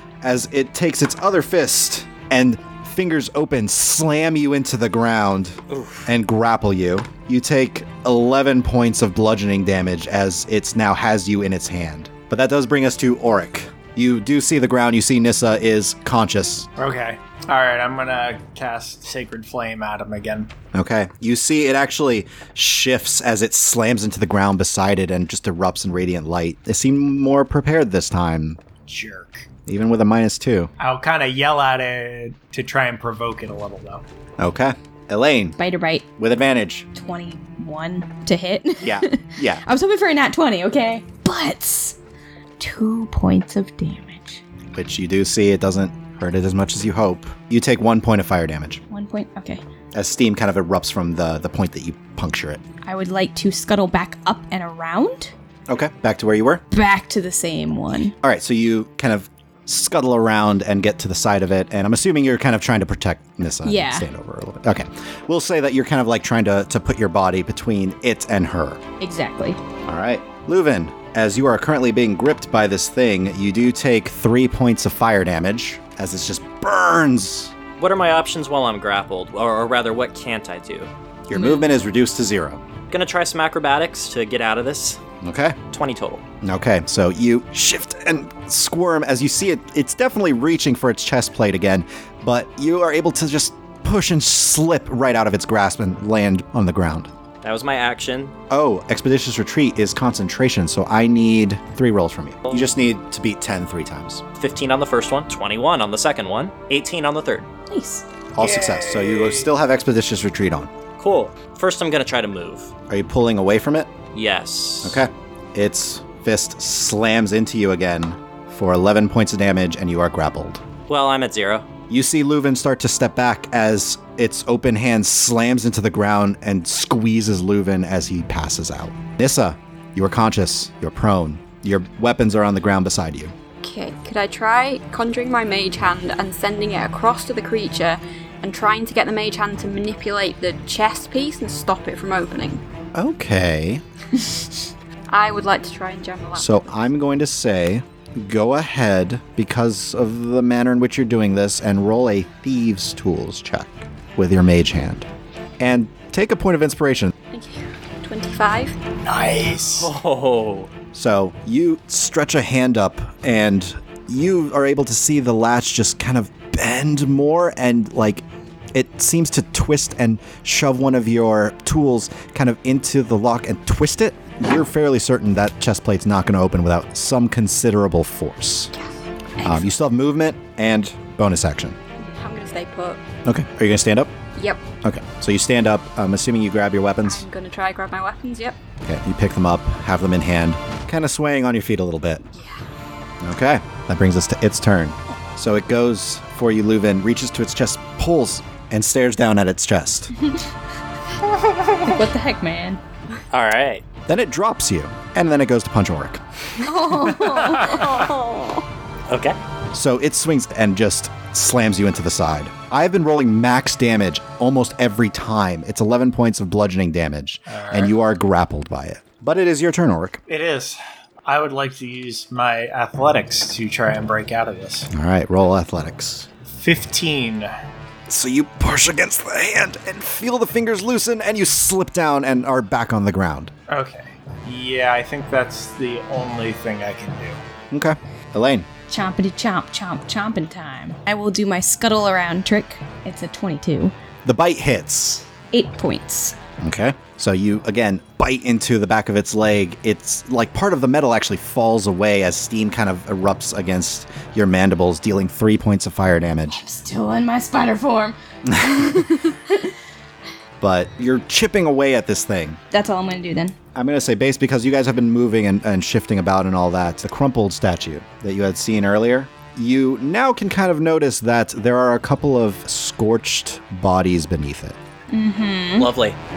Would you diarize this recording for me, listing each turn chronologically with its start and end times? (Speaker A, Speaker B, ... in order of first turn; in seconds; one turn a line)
Speaker A: 0.2-16.7
Speaker B: 5.7-6.1
Speaker C: 16.8-20.5
Speaker A: 20.7-28.6
Speaker C: 28.9-29.5
Speaker A: 29.7-30.7
Speaker C: 30.8-34.0
Speaker A: 34.4-35.6
Speaker D: 35.6-36.1
Speaker A: 36.2-36.9
Speaker D: 36.9-42.0
Speaker A: 38.8-39.6
Speaker D: 42.6-44.4
Speaker A: 44.7-48.8
Speaker D: 48.9-49.6
Speaker A: 49.9-52.6
Speaker D: 52.8-55.3
Speaker A: 55.7-56.6
Speaker D: 56.7-58.1
Speaker A: 58.2-68.8
Speaker D: 63.6-64.1
Speaker D: 69.0-69.6
Speaker A: 69.9-77.5
Speaker B: 77.8-80.9
Speaker A: 81.3-82.6
Speaker D: 81.4-81.6
Speaker B: 82.9-85.0
Speaker A: 85.2-85.6
Speaker B: 85.7-86.2
Speaker A: 86.4-97.1
Speaker B: 97.4-98.3
Speaker A: 98.5-104.2
Speaker B: 104.4-107.5
Speaker D: 107.7-108.0
Speaker A: 108.3-110.7
Speaker C: 108.4-109.5
Speaker B: 111.0-112.7
Speaker A: 112.9-113.9
Speaker B: 114.1-115.0
Speaker A: 114.8-120.6
Speaker B: 120.9-121.7
Speaker A: 121.9-133.3
Speaker E: 133.6-142.6
Speaker A: 142.9-143.8
Speaker E: 145.1-146.6
Speaker A: 146.4-155.1
Speaker A: 155.6-157.1
Speaker E: 157.3-158.8
Speaker C: 159.1-159.9
Speaker B: 159.8-160.7
Speaker A: 160.9-178.7
Speaker A: 179.4-181.8
Speaker E: 182.0-183.0
Speaker A: 183.2-184.1
Speaker E: 184.4-184.6
Speaker A: 184.8-187.2
Speaker E: 187.0-188.6
Speaker A: 188.8-192.2
Speaker E: 192.3-192.6
Speaker A: 193.2-200.1
Speaker D: 201.8-202.8
Speaker B: 203.3-203.8
Speaker A: 204.1-206.2
Speaker D: 206.6-207.9
Speaker E: 207.6-208.6
Speaker B: 209.1-209.4
Speaker A: 209.7-220.2
Speaker C: 217.5-217.9
Speaker C: 220.3-224.9
Speaker A: 224.9-226.3
Speaker C: 226.5-227.5
Speaker A: 228.1-233.5
Speaker C: 233.7-237.4
Speaker A: 237.7-238.7
Speaker D: 238.9-243.9
Speaker A: 244.2-245.2
Speaker D: 245.5-246.4
Speaker A: 246.6-256.6
Speaker D: 256.5-259.7
Speaker A: 258.5-259.1
Speaker A: 260.6-262.6
Speaker D: 262.7-263.6
Speaker A: 263.8-274.8
Speaker D: 275.1-275.9
Speaker B: 275.8-276.2